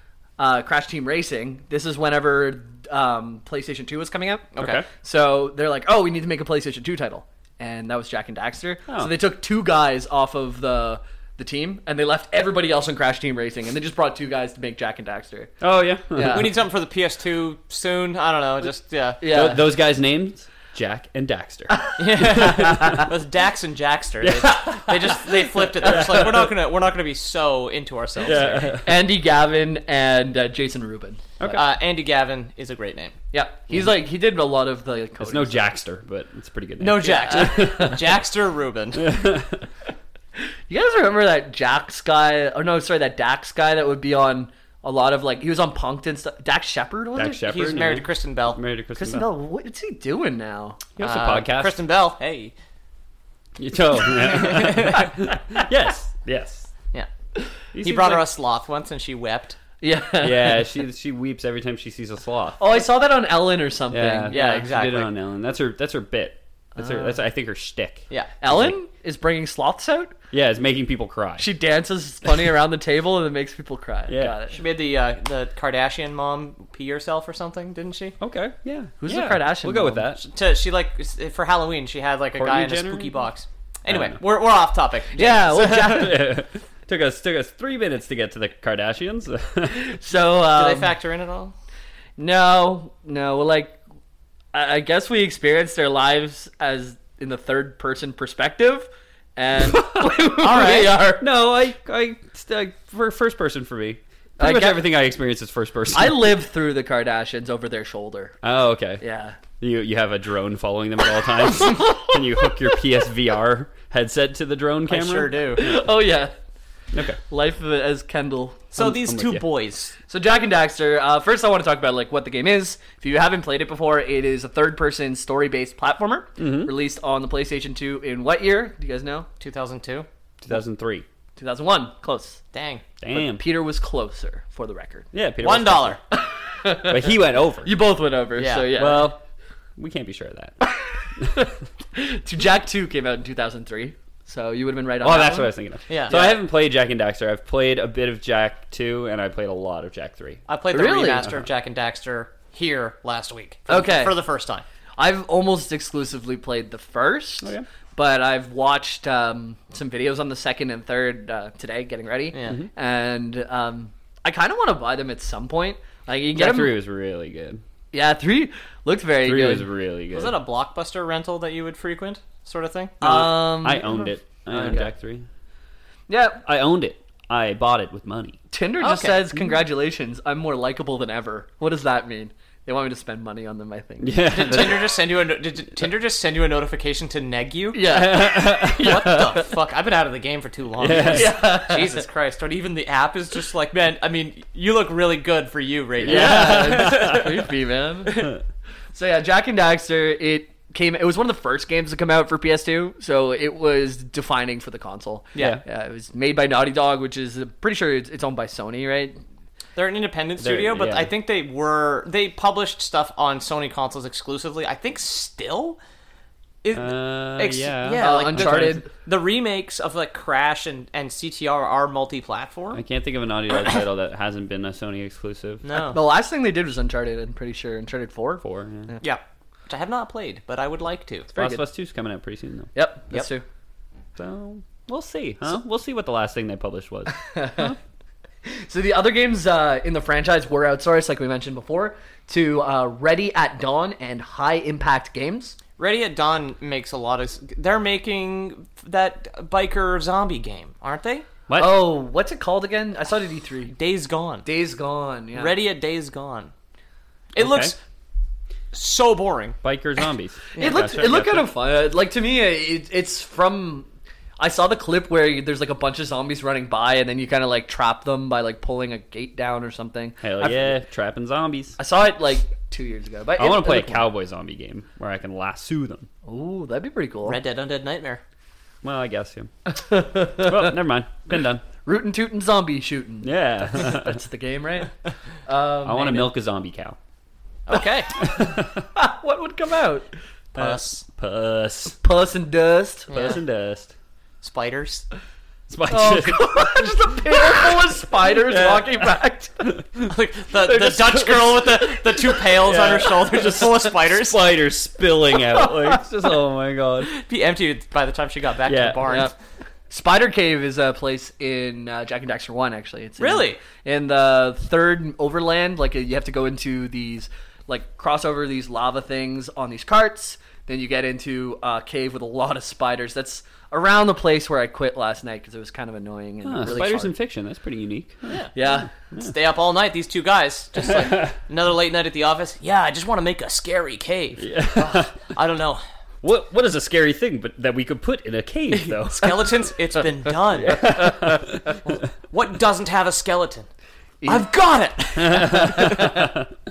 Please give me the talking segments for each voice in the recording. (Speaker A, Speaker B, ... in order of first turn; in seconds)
Speaker A: 0.4-15.5, 16.1-16.5, 19.2-19.6, 21.7-23.1, 28.8-31.2, 33.3-35.8, 37.3-38.0, 40.7-47.5, 48.9-50.8, 59.8-60.7, 62.6-64.4, 66.8-67.2, 68.4-70.1, 71.4-74.6, 79.0-80.1, 85.1-86.2, 89.7-90.9, 92.2-93.8, 94.5-101.2, 104.4-104.9, 105.9-108.3, 109.0-109.4, 115.5-116.3, 117.3-118.7, 120.1-129.3, 131.4-132.4, 133.1-135.1, 136.1-139.1, 140.6-145.5, 146.1-146.4, 150.7-151.3, 153.7-154.2, 155.0-166.8, 167.9-169.7, 173.0-174.8, 176.1-176.4, 178.5-184.7, 187.7-189.4, 191.1-192.0, 196.0-198.3, 198.9-209.2, 218.0-218.9, 225.9-229.0, 231.3-231.6, 232.7-233.4, 237.1-237.7, 238.4-245.6, 251.5-253.7, 254.4-255.5, 260.6-263.9, 264.4-270.8, 271.8-274.1, 276.2-277.4, 279.7-280.7, 281.8-284.9, 285.4-286.3, 288.4-290.1, 292.0-293.4, 295.9-299.7, 309.0-309.3, 309.9-327.1, 328.5-328.9, 340.8-341.4, 344.2-344.5, 345.6-346.3
Speaker B: 4.5-4.8, 16.3-19.2, 22.0-28.8, 31.4-33.1, 36.8-39.1, 47.4-48.6, 51.0-52.5, 54.4-55.1, 57.8-59.6, 64.3-65.1, 74.5-78.2, 80.2-86.2, 90.5-91.5, 100.4-101.0, 114.9-115.6, 118.7-120.0, 129.4-130.1, 132.5-132.8, 135.4-136.0, 138.4-138.7, 145.9-146.3, 150.5-154.6, 162.3-162.6, 170.1-173.0, 178.8-179.2, 184.3-188.1, 188.8-197.3, 209.7-215.8, 216.6-222.8, 225.6-226.0, 229.0-231.3, 245.8-251.2, 253.8-254.4, 255.3-256.5, 257.3-257.8, 258.7-259.6, 260.6-260.8, 277.2-278.2, 287.7-288.1, 290.6-291.0, 293.1-293.4, 294.4-295.1, 300.0-304.4, 307.1-309.3, 313.2-313.6, 329.2-335.8, 338.7-341.1, 342.3-343.7, 344.3-345.9
Speaker C: 4.6-4.8, 15.6-16.5, 19.2-23.1, 24.2-24.8, 25.7-26.5, 28.2-28.9, 31.4-31.6, 35.2-38.0, 39.0-39.6, 47.1-49.3, 51.0-51.8, 53.6-56.7, 57.7-58.2, 60.2-62.7, 63.9-68.7, 70.3-71.5, 74.1-74.4, 78.2-80.2, 82.3-83.2, 83.9-84.2, 85.7-89.8, 101.2-106.4, 108.4-109.0, 109.6-115.3, 116.9-117.2, 118.7-119.4, 126.4-126.7, 130.4-131.0, 133.0-133.4, 135.1-136.0, 136.8-137.7, 138.7-139.2, 139.8-140.6, 145.0-150.4, 166.3-167.6, 169.2-170.4, 173.0-175.2, 176.4-178.4, 184.0-184.9, 187.8-189.2, 190.8-191.6, 196.0-197.4, 210.4-211.1, 216.7-218.8, 222.7-225.9, 228.4-228.9, 231.3-232.7, 234.2-237.8, 251.5-251.9, 257.4-257.7, 259.6-261.5, 270.2-271.8, 273.4-276.1, 278.8-279.5, 280.3-281.6, 283.2-284.2, 285.8-287.0, 288.2-288.8, 290.5-292.0, 293.1-293.9, 295.7-299.1, 299.7-300.1, 300.6-307.1, 308.6-309.2, 326.4-329.3, 330.8-331.3, 334.4-335.2, 336.2-339.3, 340.6-341.7, 345.2-346.4